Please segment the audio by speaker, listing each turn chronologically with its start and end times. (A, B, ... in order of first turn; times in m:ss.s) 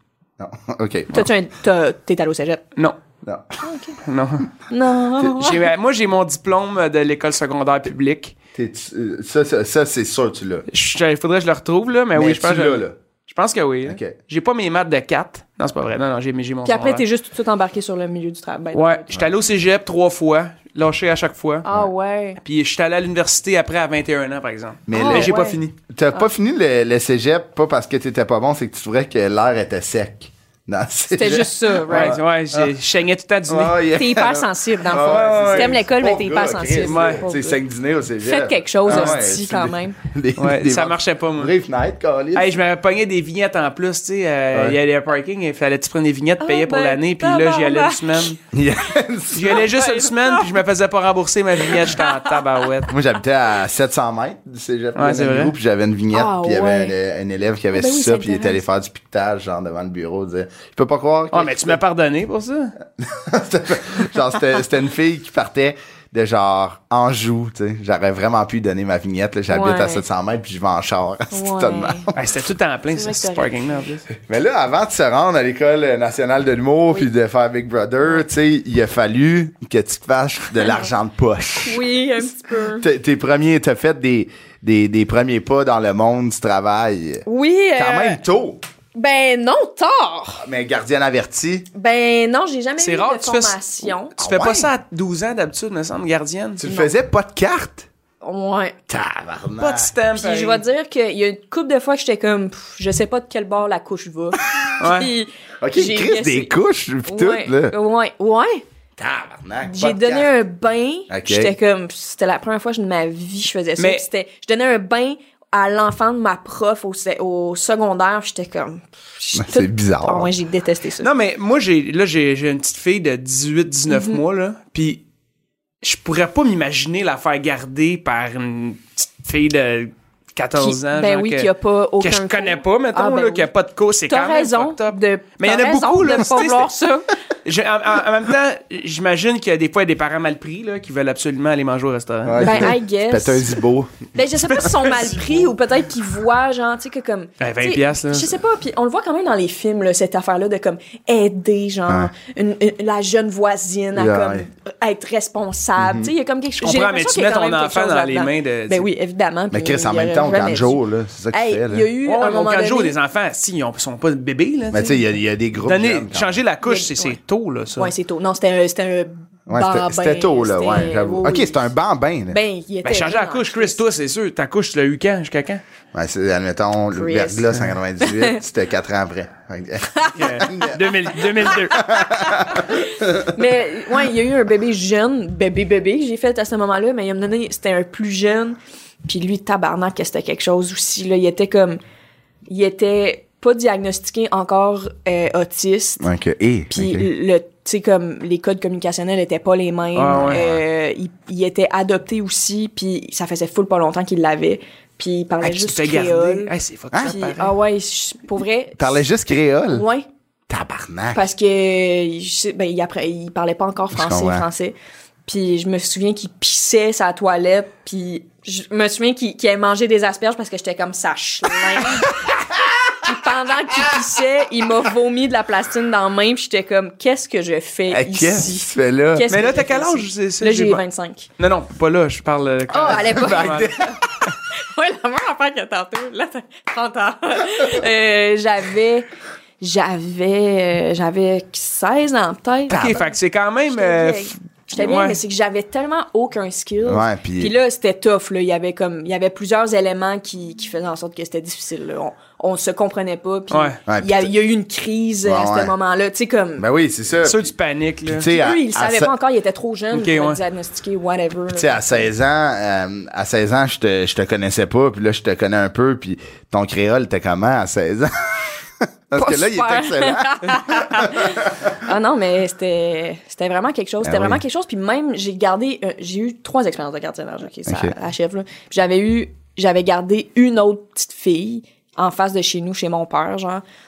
0:00.4-0:01.3 A
0:01.1-0:02.6 B
0:03.2-0:03.5 A
0:03.6-0:04.0 B
0:04.0-0:04.5 C
0:04.7-0:05.7 B
0:05.4-0:08.3 C
0:08.6-0:10.6 A
0:10.7-0:17.0 C
0:12.1-0:12.9 A
0:13.8-0:14.2 A
0:16.6-0:19.0 B
0:18.7-0:21.6 C
0:21.6-0:22.4 B
0:22.4-0:25.7 C
0:24.9-0:32.7 A
0:24.9-0:25.6 B
0:31.1-0:32.2 B
0:31.9-0:33.8 C
0:33.5-0:42.6 A
0:33.9-0:37.6 B
0:34.9-0:35.8 C
0:36.8-0:37.3 C
0:38.2-0:40.0 B
0:38.9-0:39.2 C
0:40.4-0:41.5 C
0:42.3-0:48.4 C
0:44.5-0:44.8 A
0:46.4-0:48.3 B
0:48.5-0:49.7 A
0:49.3-0:52.9 C
0:49.5-0:50.5 B
0:51.7-0:52.1 B
0:52.9-1:01.8 A
0:55.0-0:55.5 C
0:56.1-0:56.9 B
0:57.7-0:58.6 B
1:01.3-1:02.7 C
1:03.0-1:12.2 A
1:09.5-1:10.0 B
1:11.3-1:12.1 B
1:12.1-1:14.0 C
1:12.9-1:13.8 B
1:14.2-1:21.8 A
1:21.6-1:22.9 B
1:22.7-1:28.6 A
1:27.3-1:28.2 B
1:28.9-1:30.4 B
1:30.4-1:31.7 A
1:31.7-1:34.1 B
1:32.8-1:36.6 C
1:34.2-1:34.7 A
1:36.6-1:37.9 A
1:36.6-1:36.9 B
1:38.2-1:38.8 B
1:38.9-1:39.9 A
1:39.6-1:40.6 C
1:40.1-1:46.5 B
1:44.8-1:45.1 C
1:45.6-1:47.7 A
1:47.1-1:48.6 B
1:49.0-1:50.3 A
1:49.6-2:01.1 B
1:51.1-1:51.5 A
1:53.8-1:54.0 C
1:59.3-2:00.3 A
2:01.0-2:05.0 C
2:03.9-2:04.2 B
2:05.8-2:16.7 C
2:10.6-2:13.5 B
2:14.1-2:17.1 B
2:17.4-2:22.7 C
2:22.2-2:24.7 A
2:22.4-2:23.5 B
2:24.1-2:42.9 B
2:24.7-2:25.5 C
2:27.4-2:28.3 C
2:33.9-2:34.5 A
2:35.8-2:36.1 A
2:36.6-2:38.9 C
2:39.5-2:41.9 A
2:42.0-2:45.0 C
2:44.7-2:46.4 A
2:45.6-2:47.9 C
2:46.6-2:47.2 B
2:47.8-2:51.6 B
2:49.5-2:52.4 A
2:52.3-2:53.8 B
2:52.8-2:55.6 C
2:55.9-3:00.8 A
2:56.9-2:57.4 B
2:58.0-2:58.4 B
3:00.2-3:01.9 C
3:01.6-3:03.1 A
3:01.8-3:11.8 B
3:12.5-3:16.0 B
3:16.0-3:17.1 A
3:16.7-3:26.5 B
3:19.9-3:20.4 C
3:20.1-3:20.6 A
3:25.4-3:27.6 C
3:27.0-3:29.0 B
3:28.8-3:29.9 A
3:29.7-3:30.0 B
3:30.5-3:31.3 A
3:31.1-3:42.2 B
3:33.9-3:34.5 A
3:42.9-3:51.3 B
3:47.9-3:49.3 A
3:49.3-3:50.8 C
3:51.4-3:53.7 C
3:52.7-3:54.0 B
3:52.8-3:54.0 A
3:54.6-3:59.1 B
3:59.6-4:03.1 B
4:02.7-4:03.0 A
4:02.7-4:05.2 C
4:03.7-4:16.6 B
4:06.8-4:07.5 A
4:13.5-4:13.8 C
4:13.9-4:14.3 A
4:15.2-4:15.7 A
4:16.6-4:17.5 A
4:17.2-4:18.3 C
4:18.0-4:19.1 A
4:18.3-4:21.8 B
4:19.9-4:20.4 C
4:21.5-4:31.5 A
4:29.1-4:43.6 B
4:34.0-4:34.4 A
4:37.7-4:37.9 A